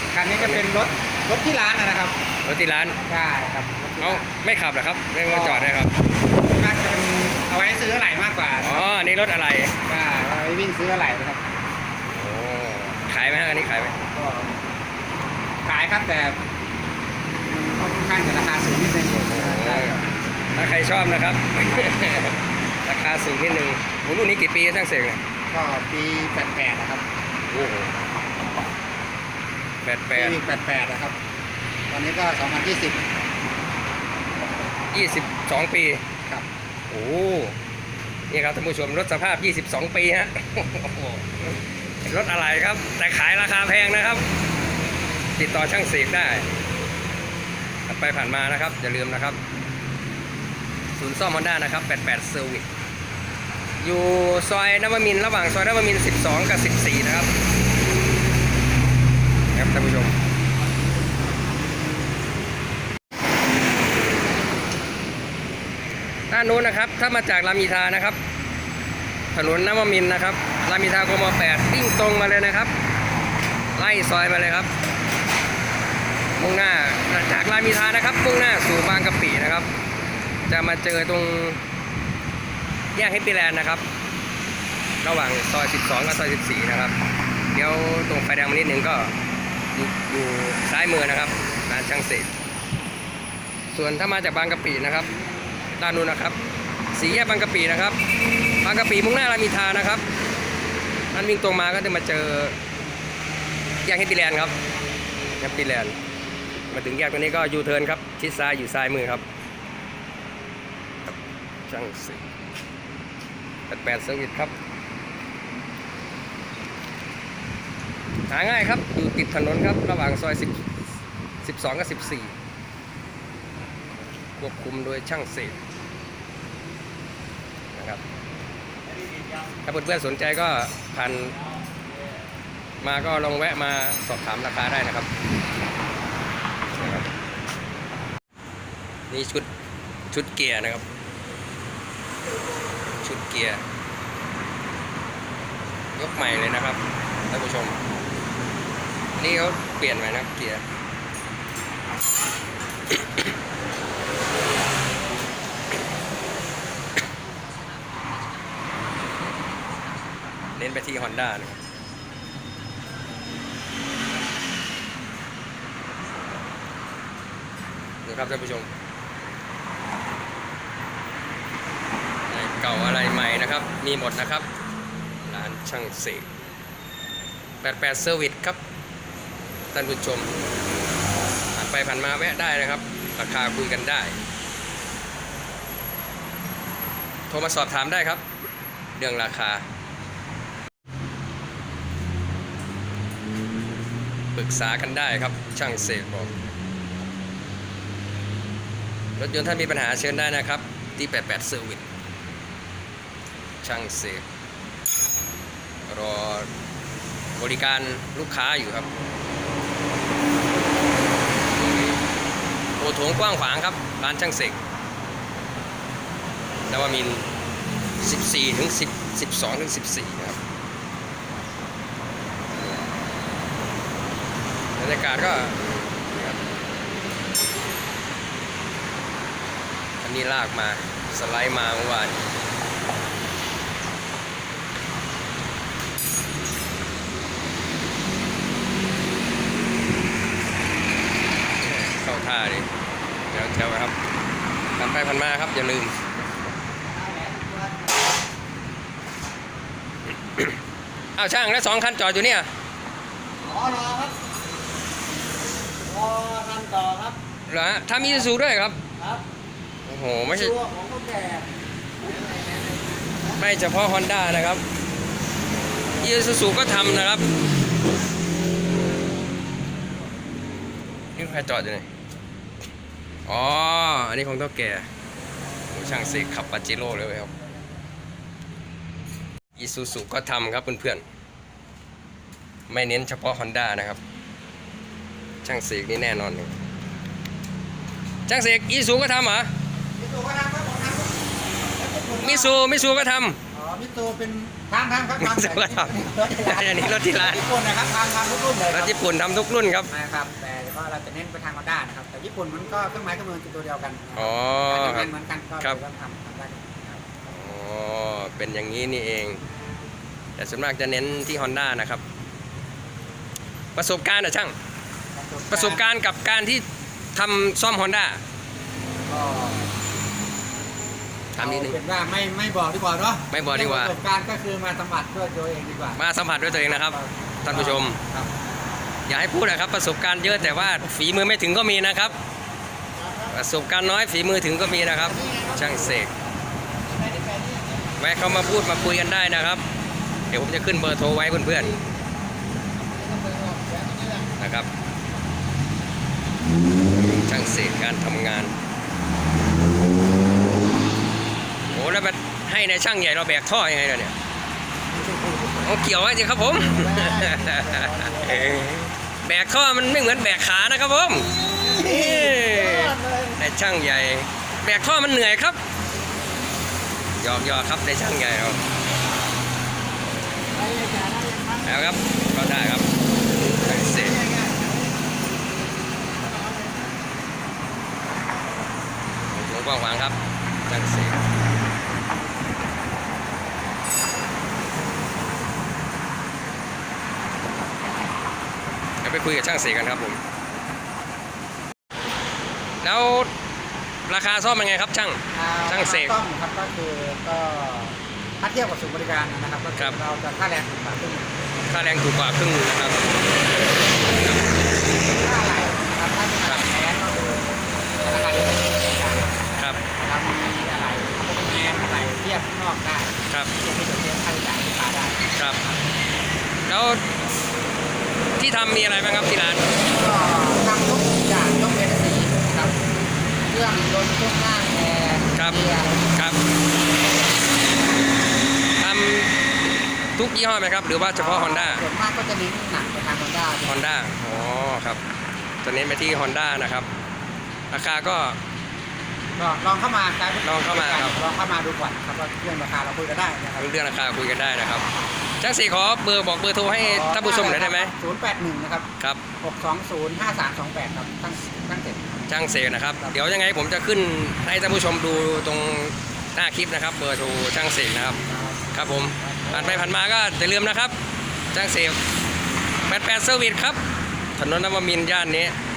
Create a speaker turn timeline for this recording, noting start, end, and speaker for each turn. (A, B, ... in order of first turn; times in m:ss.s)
0:00.1-0:02.2 A
0:02.4-0:03.0 B
0:03.0-0:04.3 A
0:04.0-0:05.9 B
0:05.2-0:05.9 A
0:06.4-0:08.8 A
0:08.6-0:09.8 B
0:09.9-0:11.6 A
0:12.1-0:14.0 B
0:14.1-0:14.6 A
0:15.7-0:16.4 A
0:17.5-0:20.1 A
0:19.1-0:20.0 B
0:20.6-0:25.2 B
0:25.5-0:27.0 A
0:27.5-0:27.9 B
0:29.8-0:30.4 B
0:30.1-0:31.2 A
0:31.9-0:33.0 A
0:34.9-0:36.0 B
0:36.9-0:37.6 B
0:38.3-0:44.2 B
0:45.4-0:46.5 B
0:47.9-0:49.4 B
0:50.9-0:52.7 B
0:53.8-0:57.3 B
0:59.5-1:00.2 B
1:06.3-1:08.2 B
1:09.3-1:12.7 B
1:13.8-1:14.7 B
1:16.4-1:19.7 B
1:20.5-1:21.6 B
1:22.9-1:23.8 B
1:25.0-1:27.0 B
1:27.5-1:29.1 B
1:29.7-1:32.3 B
1:33.7-1:35.2 B
1:35.7-1:36.4 B
1:36.9-1:38.0 B
1:38.6-1:40.0 B
1:41.1-1:42.6 B
1:43.8-1:44.6 B
1:45.4-1:46.0 B
1:46.7-1:49.2 B
1:51.1-1:52.2 B
1:53.7-1:54.5 B
1:58.3-2:00.6 B
2:01.4-2:02.4 B
2:04.4-2:05.6 B
2:07.7-2:08.0 B
2:09.6-2:11.4 B
2:12.8-2:15.1 B
2:16.7-2:17.1 B
2:19.1-2:19.5 B
2:20.1-2:20.8 B
2:23.0-2:23.6 B
2:26.0-2:27.8 B
2:29.2-2:30.6 B
2:40.6-2:41.6 B
2:48.0-2:48.7 B
2:52.3-2:54.5 B
2:55.3-2:56.3 B
2:57.6-2:58.6 B
2:59.7-3:00.3 B
3:01.6-3:04.2 B
3:07.3-3:08.2 B
3:09.0-3:09.6 B
3:14.4-3:16.3 B
3:19.2-3:21.9 B
3:23.6-3:24.2 B
3:25.9-3:26.5 B
3:27.4-3:28.9 B
3:31.6-3:31.9 B
3:32.8-3:34.6 B
3:36.7-3:37.3 B
3:38.0-3:40.4 B
3:44.8-3:45.6 B
3:46.1-3:46.4 B
3:50.0-3:52.2 B
4:01.6-4:02.7 B
4:03.3-4:04.0 B
4:04.8-4:05.9 B
4:07.0-4:07.5 A
4:07.2-4:07.7 C
4:11.2-4:12.5 B
4:13.4-4:14.1 C
4:15.8-4:17.2 C
4:17.5-4:18.8 B
4:19.9-4:20.6 B
4:20.6-4:21.5 C
4:22.0-4:23.3 C
4:23.3-4:24.6 B
4:26.0-4:27.2 B
4:31.2-4:31.9 B
4:33.3-4:34.9 B
4:35.7-4:37.3 B
4:39.6-4:41.0 B
4:42.7-4:44.0 B
4:45.4-4:46.5 B
4:48.3-4:49.5 B
4:50.0-4:52.6 A
4:52.2-4:53.4 B
4:53.5-4:59.1 A
4:55.2-4:57.4 B
4:58.7-4:59.9 B
4:59.9-5:07.1 A
5:04.2-5:05.1 B
5:07.2-5:09.4 B
5:10.4-5:12.0 B
5:13.8-5:14.6 B
5:15.1-5:15.8 A
5:15.5-5:18.2 B
5:19.1-5:19.7 A
5:21.4-5:21.8 B
5:21.4-5:26.0 A
5:23.3-5:24.0 B
5:26.0-5:28.0 B
5:26.7-5:28.3 A
5:29.1-5:32.2 B
5:33.0-5:33.3 C
5:33.3-5:36.1 B
5:36.9-5:37.8 C
5:38.0-5:39.6 B
5:40.3-5:41.8 B
5:42.8-5:44.3 C
5:44.4-5:44.7 B
5:47.0-5:48.6 B
5:51.7-5:54.1 B
5:55.1-5:55.5 C
5:55.5-6:05.6 B
5:56.9-5:57.3 C
5:57.9-5:58.3 C
6:01.6-6:03.3 C
6:07.2-6:08.6 B
6:10.5-6:11.6 C
6:11.6-6:12.9 B
6:13.5-6:14.3 B
6:14.0-6:15.0 C
6:16.2-6:16.9 C
6:19.3-6:21.2 B
6:29.0-6:30.2 B
6:32.8-6:33.3 B
6:34.1-6:36.2 B
6:35.3-6:41.4 A
6:41.7-6:43.2 B
6:45.1-6:55.8 A
6:49.6-6:49.8 B
6:55.4-6:55.6 B
6:56.7-6:57.0 B
6:58.4-6:59.7 B
6:59.9-7:02.8 A
7:03.5-7:06.1 A
7:05.4-7:06.4 B
7:08.8-7:09.3 B
7:10.2-7:11.8 B
7:11.1-7:13.8 A
7:13.7-7:15.0 B
7:15.6-7:16.9 B
7:17.7-7:18.4 B
7:19.4-7:23.7 A
7:20.4-7:21.2 B
7:23.6-7:24.9 B
7:25.4-7:27.9 B
7:26.8-7:28.9 A
7:29.4-7:32.2 A
7:32.3-7:41.0 B
7:38.2-7:39.9 A
7:41.5-7:42.0 B
7:42.9-7:43.8 B
7:44.4-7:45.6 B